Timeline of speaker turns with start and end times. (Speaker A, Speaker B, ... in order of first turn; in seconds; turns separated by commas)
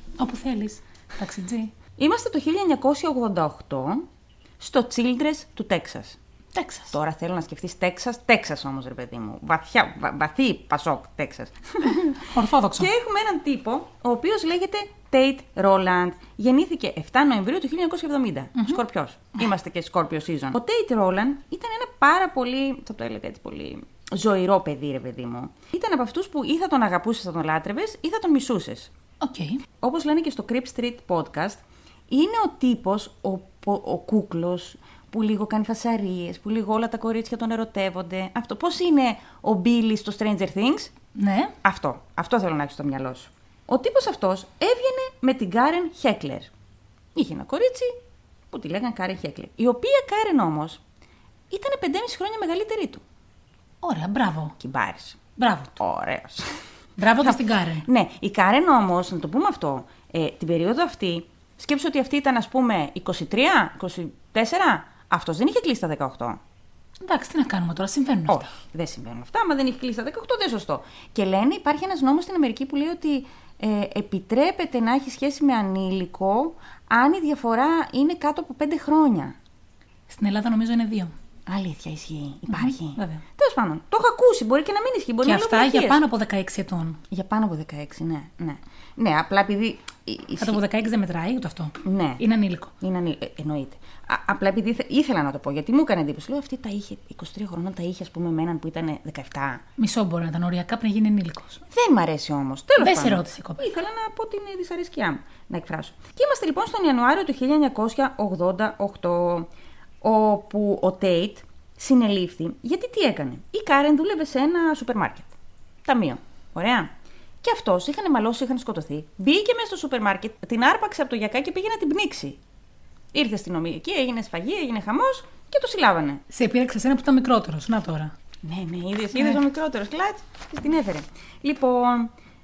Speaker A: 0.2-1.7, Speaker B: 2.0-4.1, Speaker B: 4.6-6.2, Speaker A: 6.5-7.0, Speaker B: 6.9-28.9, Speaker A: 12.2-12.9, Speaker A: 29.2-29.6, Speaker B: 29.8-40.9, Speaker A: 41.1-41.5, Speaker B: 41.6-46.5, Speaker B: 47.1-48.0, Speaker B: 48.5-50.8, Speaker B: 51.5-53.0, Speaker A: 53.8-54.6, Speaker B: 54.6-55.2, Speaker A: 55.4-55.8, Speaker B: 55.8-56.6, Speaker A: 57.0-57.9, Speaker B: 57.2-66.4, Speaker A: 67.0-68.5, Speaker B: 68.3-79.4, Speaker A: 80.1-81.1, Speaker B: 81.5-86.0, Speaker A: 82.5-83.2, Speaker A: 85.2-87.0, Speaker B: 87.1-90.6, Speaker A: 90.4-92.7, Speaker B: 91.8-92.2, Speaker B: 92.8-99.6, Speaker A: 99.8-101.6, Speaker B: 101.7-109.5, Speaker A: 102.8-103.6, Speaker B: 110.0-122.4, Speaker B: 123.1-126.2, Speaker A: 126.3-128.1, Speaker B: 128.4-132.1